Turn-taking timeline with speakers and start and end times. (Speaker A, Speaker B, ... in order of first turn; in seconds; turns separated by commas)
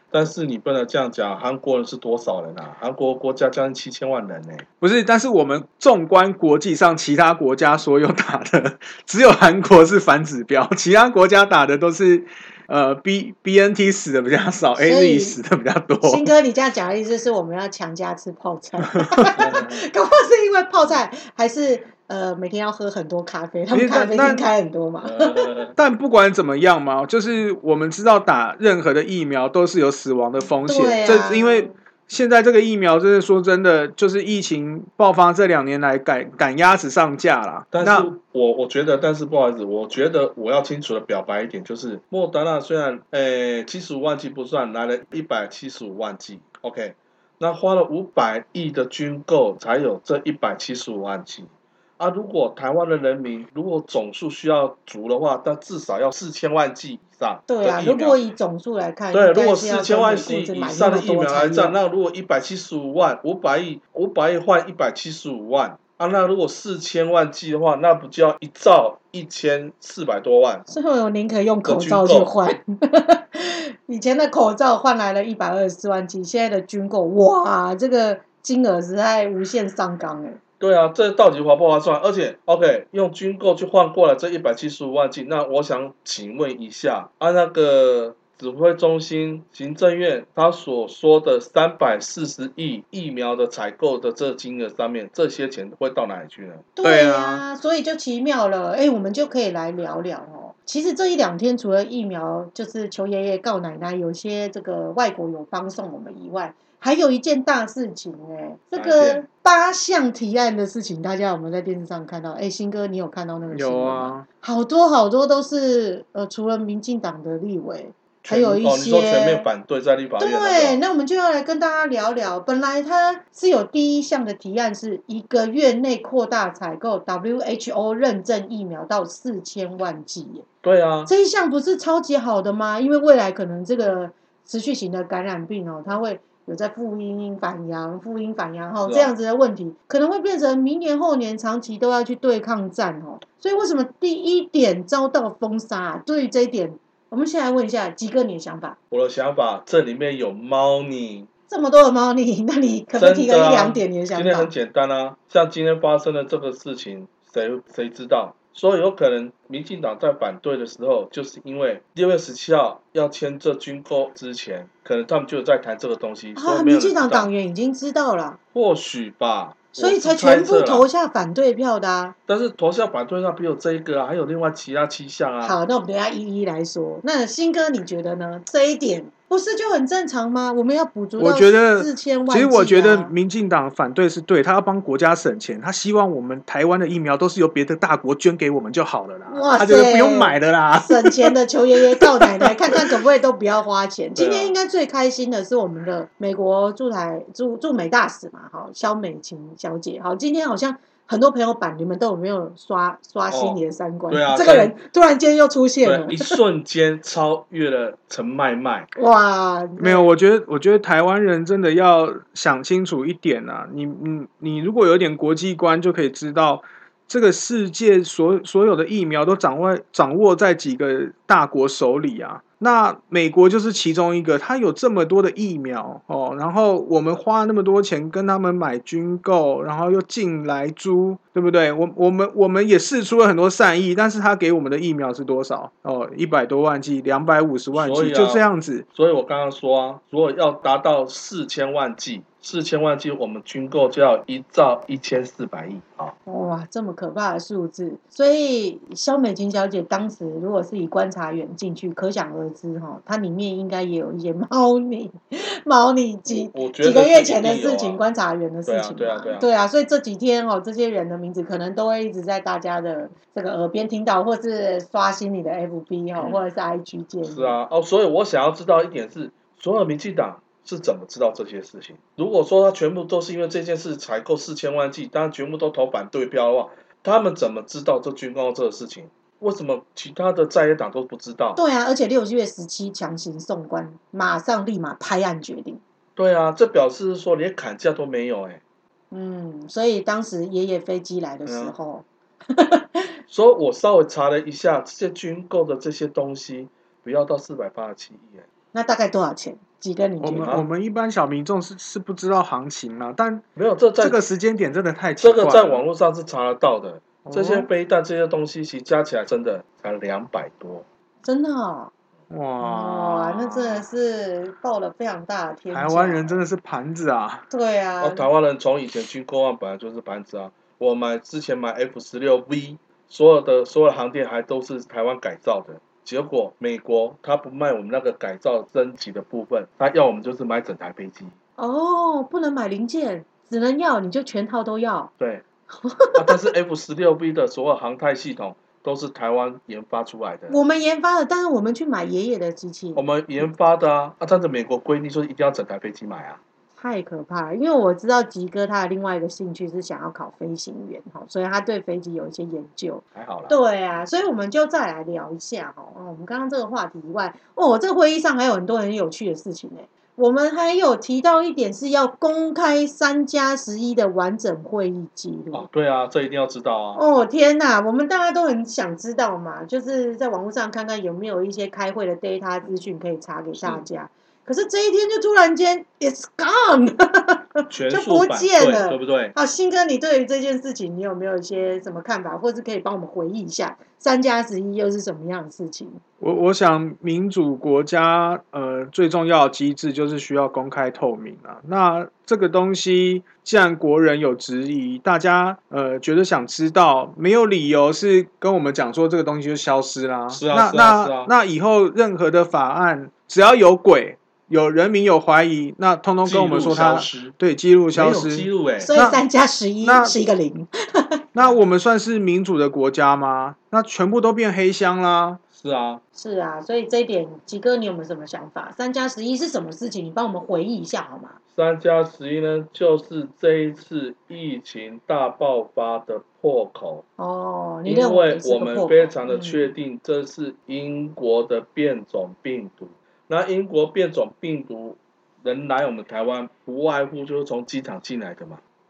Speaker A: 0.1-4.7, Speaker B: 4.8-16.3, Speaker C: 14.8-15.4, Speaker C: 16.0-25.6, Speaker A: 19.4-19.8, Speaker B: 23.7-24.5, Speaker A: 25.0-25.8, Speaker B: 25.8-38.1, Speaker C: 30.7-31.7, Speaker A: 37.7-58.2, Speaker C: 57.5-61.8, Speaker A: 59.1-70.7, Speaker C: 70.7-80.4, Speaker A: 71.7-72.3, Speaker A: 80.6-96.7, Speaker C: 96.8-119.5, Speaker B: 96.8-97.4, Speaker A: 108.8-109.2, Speaker B: 113.5-114.2, Speaker A: 118.2-120.8, Speaker C: 120.2-130.5, Speaker A: 130.6-131.1, Speaker C: 131.1-148.8, Speaker A: 138.8-139.1, Speaker A: 148.9-151.3, Speaker C: 151.5-154.5, Speaker A: 152.9-167.3, Speaker C: 166.4-168.4, Speaker A: 168.5-170.9, Speaker C: 169.8-172.1, Speaker A: 172.3-175.6, Speaker C: 175.4-183.1, Speaker B: 181.2-191.3, Speaker C: 189.3-206.4, Speaker B: 192.0-192.9, Speaker A: 194.2-194.6, Speaker A: 203.3-204.8, Speaker A: 205.8-208.9, Speaker C: 209.0-210.1, Speaker B: 209.8-238.8, Speaker A: 237.7-246.1, Speaker C: 246.2-267.6, Speaker A: 256.3-258.0, Speaker A: 258.6-259.5, Speaker A: 266.1-266.4, Speaker A: 267.2-281.6, Speaker C: 281.6-285.8, Speaker A: 286.1-288.6, Speaker C: 289.1-293.1, Speaker A: 291.5-291.8, Speaker A: 293.3-298.5, Speaker C: 298.7-300.6, Speaker B: 300.2-303.4, Speaker A: 303.6-304.2, Speaker B: 304.0-305.9, Speaker A: 305.2-310.9, Speaker B: 307.2-307.7, Speaker C: 311.2-311.9, Speaker B: 312.3-313.9, Speaker C: 312.6-316.4, Speaker B: 315.7-317.5, Speaker C: 317.5-318.3, Speaker A: 318.0-331.4, Speaker C: 331.6-335.1, Speaker C: 335.7-336.5, Speaker A: 336.1-340.6, Speaker C: 340.5-343.1, Speaker A: 342.9-346.4, Speaker C: 346.8-365.7, Speaker A: 353.1-353.6, Speaker A: 365.5-367.0, Speaker C: 367.0-386.0, Speaker A: 373.6-373.9, Speaker A: 377.7-379.4, Speaker B: 386.2-409.2, Speaker A: 400.3-401.3, Speaker A: 406.2-407.4, Speaker A: 407.9-408.9, Speaker C: 408.8-411.2, Speaker B: 409.8-410.1, Speaker B: 411.4-415.4, Speaker A: 415.5-416.0, Speaker C: 416.1-421.4, Speaker A: 421.5-427.0, Speaker C: 427.2-429.7, Speaker A: 427.9-438.6